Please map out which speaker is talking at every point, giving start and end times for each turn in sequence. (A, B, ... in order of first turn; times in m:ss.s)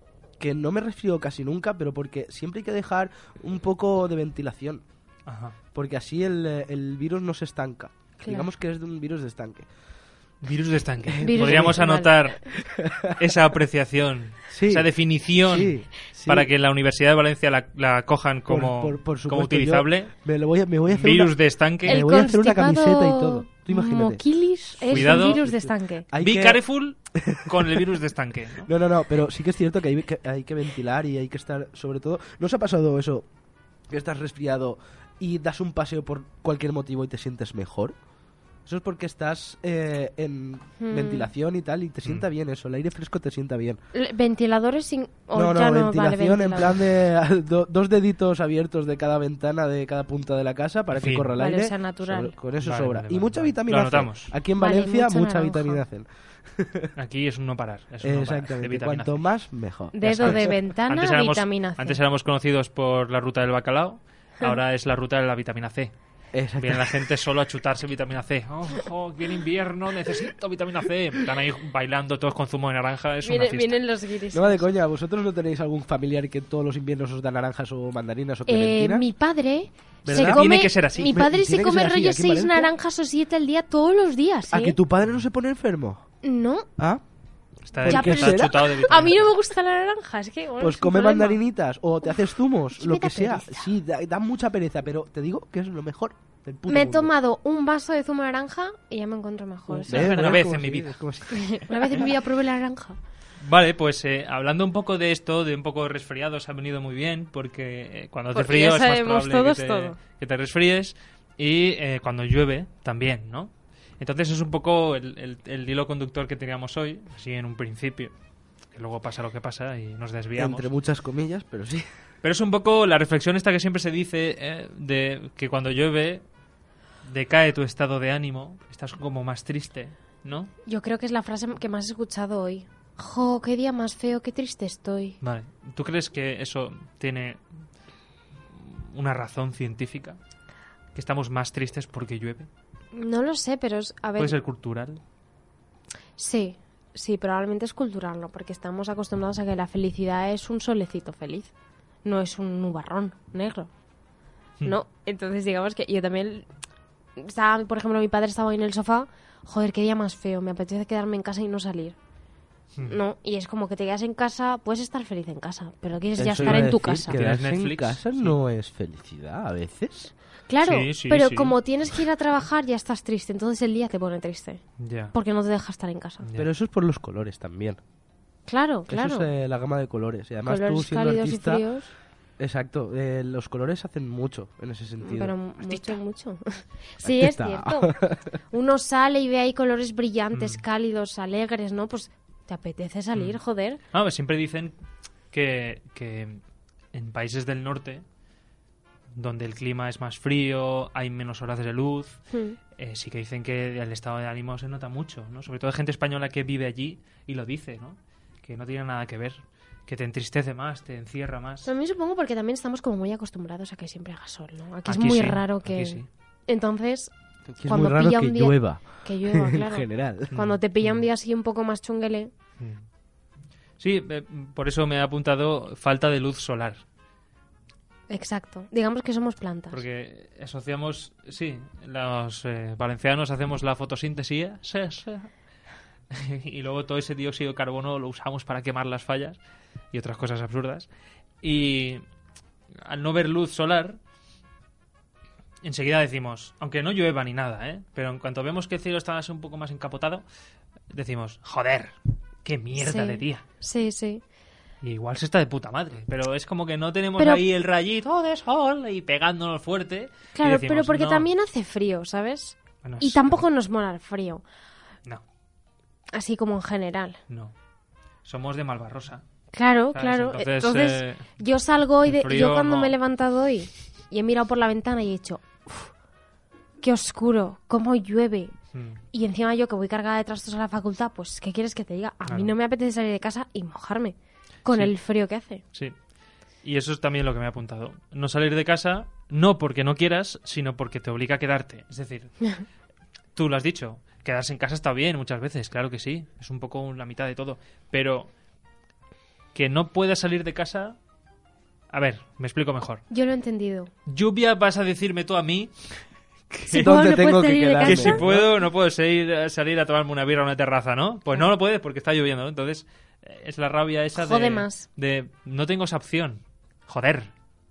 0:00.4-0:04.8 A
0:05.2-0:05.5 B
0:05.7-0:09.7 A
0:08.2-0:08.5 C
0:10.4-0:12.6 B
0:11.0-0:11.8 A
0:11.2-0:12.1 C
0:12.6-0:13.2 A
0:13.2-0:20.1 B
0:14.5-0:16.5 A
0:18.5-0:24.2 A
0:20.9-0:22.0 B
0:21.8-0:26.1 C
0:24.8-0:25.4 B
0:24.8-0:26.6 A
0:26.2-0:28.7 B
0:27.1-0:27.9 A
0:28.6-0:33.2 A
0:33.9-0:37.9 A
0:38.6-0:43.8 A
0:40.8-0:41.3 C
0:43.9-0:46.8 C
0:45.3-0:56.9 A
0:50.9-0:51.4 B
0:51.4-0:52.3 C
0:52.6-0:54.3 B
0:54.6-0:55.8 C
0:57.0-0:59.2 B
0:58.0-1:00.5 A
0:59.9-1:02.0 C
1:00.0-1:05.9 B
1:06.3-1:07.0 A
1:06.6-1:13.8 B
1:13.2-1:14.7 C
1:14.3-1:19.0 A
1:18.4-1:24.8 C
1:20.0-1:22.7 A
1:20.1-1:21.2 B
1:24.5-1:26.0 A
1:26.2-1:26.7 C
1:27.7-1:29.3 B
1:27.8-1:28.5 A
1:27.8-1:31.4 C
1:30.6-1:37.1 A
1:32.7-1:33.7 C
1:36.7-1:40.4 C
1:39.7-1:42.1 A
1:39.9-1:40.9 B
1:41.3-1:43.0 C
1:43.4-1:58.1 B
1:48.3-1:50.0 C
1:58.7-2:00.7 B
2:00.4-2:01.9 A
2:02.2-2:06.2 B
2:07.0-2:10.5 B
2:10.6-2:15.2 C
2:15.2-2:17.4 B
2:18.6-2:20.2 B
2:20.9-2:22.5 B
2:22.9-2:24.4 C
2:24.2-2:25.0 B
2:26.2-2:31.5 C
2:32.0-2:33.7 C
2:34.6-2:36.5 C
2:37.2-2:42.0 C
2:42.9-2:47.2 C
2:46.2-2:50.1 A
2:46.3-2:48.3 B
2:50.5-2:54.6 C
2:50.6-2:51.6 B
2:54.8-2:55.1 B
2:55.1-2:56.2 C
2:56.2-2:56.5 B
2:56.4-2:57.8 A
2:58.5-2:59.3 C
2:58.9-3:01.6 A
3:00.4-3:01.9 C
3:02.4-3:06.0 A
3:05.0-3:08.0 C
3:07.0-3:08.3 A
3:08.5-3:13.8 C
3:10.3-3:10.6 B
3:13.1-3:13.4 B
3:13.9-3:14.7 B
3:15.3-3:16.4 B
3:16.9-3:18.0 B
3:19.1-3:31.7 B
3:22.3-3:22.6 C
3:31.6-3:37.1 C
3:34.8-3:36.1 B
3:37.5-3:40.3 A
3:37.6-3:42.3 C
3:40.3-3:41.0 B
3:43.8-3:46.8 B
3:48.1-3:49.8 C
3:49.7-3:55.3 B
3:56.1-3:59.4 B
3:59.9-4:00.9 B
4:01.4-4:02.0 B
4:02.8-4:04.0 B
4:05.6-4:10.2 B
4:10.9-4:13.4 B
4:12.8-4:14.2 C
4:14.8-4:21.3 B
4:17.2-4:17.4 C
4:20.3-4:24.4 C
4:22.8-4:23.4 B
4:26.1-4:27.2 C
4:28.2-4:29.2 B
4:29.5-4:35.9 C
4:29.9-4:31.3 B
4:32.0-4:32.9 B
4:36.8-4:38.5 C
4:38.7-4:39.0 B
4:39.1-4:45.6 C
4:42.3-4:42.5 B
4:46.6-4:52.6 B
4:53.3-4:58.3 B
4:59.5-5:01.0 B
5:01.9-5:03.0 B
5:03.1-5:03.9 C
5:04.1-5:05.9 B
5:06.7-5:08.2 C
5:06.7-5:08.5 A
5:07.8-5:17.3 B
5:14.1-5:14.8 C